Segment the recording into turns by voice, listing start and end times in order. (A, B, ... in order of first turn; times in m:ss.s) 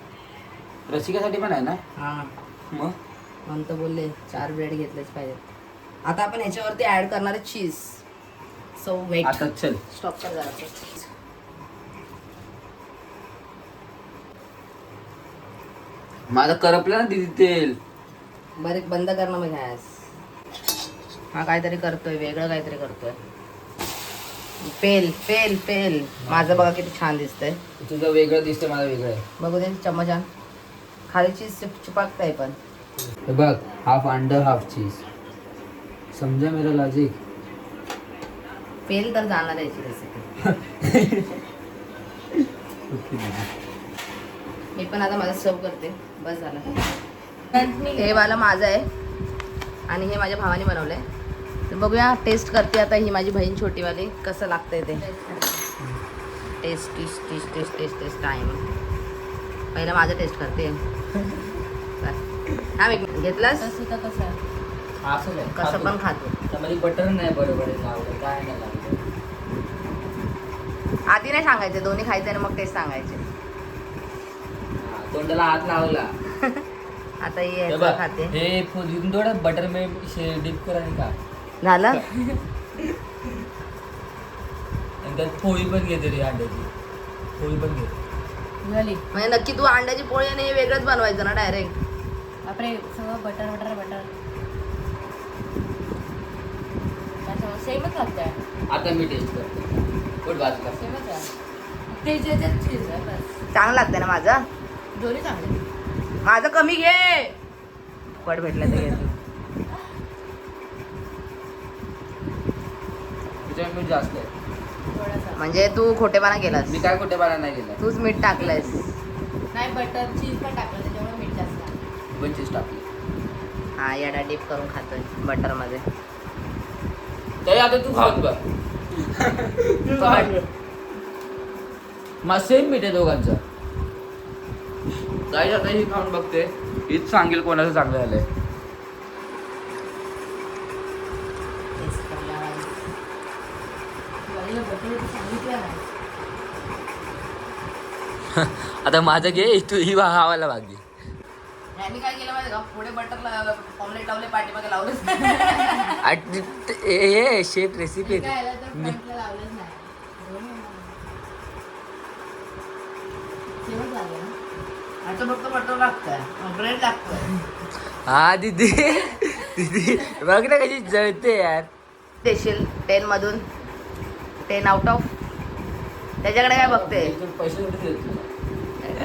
0:00.9-0:01.8 A
0:02.0-0:02.3 B
0:03.5-0:05.4 B
0:06.1-0:08.0 B
0:08.8-0:11.1 B
0:09.2-0:09.8 A
0:16.3-0:17.8 A
0:18.6-0:20.0 B
0:21.3-0:23.2 B
0:24.6-0:27.6 B
0:26.2-0:26.7 A
0:27.8-0:29.2 A
0:29.4-0:30.3 B
0:31.1-0:32.6 B
0:33.1-0:35.0 A
0:36.1-0:37.2 A
0:38.9-0:40.3 B
0:40.4-0:41.4 A
0:42.9-0:43.5 A
0:44.8-0:46.7 B
0:47.5-0:48.3 C
0:47.6-0:48.9 B
0:49.9-0:51.0 B
0:51.7-0:55.1 B
0:55.0-0:55.6 C
0:56.6-0:58.6 B
0:59.7-1:00.8 B
1:02.0-1:03.7 B
1:03.5-1:04.4 C
1:05.0-1:05.9 A
1:05.6-1:06.4 B
1:06.5-1:09.0 A
1:11.1-1:13.2 B
1:14.8-1:16.1 A
1:17.2-1:18.4 B
1:17.7-1:21.2 A
1:21.6-1:22.0 B
1:25.0-1:26.7 A
1:27.4-1:27.9 A
1:28.6-1:29.0 C
1:29.1-1:31.8 B
1:32.4-1:34.1 C
1:37.2-1:38.4 C
1:38.7-1:39.6 A
1:40.2-1:40.8 A
1:40.8-1:41.3 C
1:42.0-1:43.3 C
1:43.5-1:44.4 B
1:45.0-1:45.6 C
1:46.2-1:47.3 B
1:48.2-1:49.2 B
1:53.5-1:54.3 A
1:54.9-1:55.4 C
1:55.4-1:56.8 B
1:56.7-1:57.8 A
1:57.8-1:58.8 B
1:58.4-1:58.7 C
1:59.5-2:01.8 C
2:02.1-2:02.9 A
2:03.8-2:05.8 B
2:07.4-2:08.4 A
2:09.1-2:10.4 A
2:10.0-2:10.3 C
2:12.2-2:13.4 A
2:15.3-2:18.3 A
2:21.8-2:22.7 B
2:24.2-2:25.8 C
2:28.3-2:30.8 A
2:31.8-2:36.0 B
2:36.0-2:39.0 A
2:38.0-2:40.9 C
2:43.6-2:44.3 C
2:45.0-2:47.4 B
2:48.1-2:51.7 A
2:52.2-2:53.4 B
2:54.4-2:55.1 B
2:56.2-2:57.1 B
2:56.5-2:58.3 A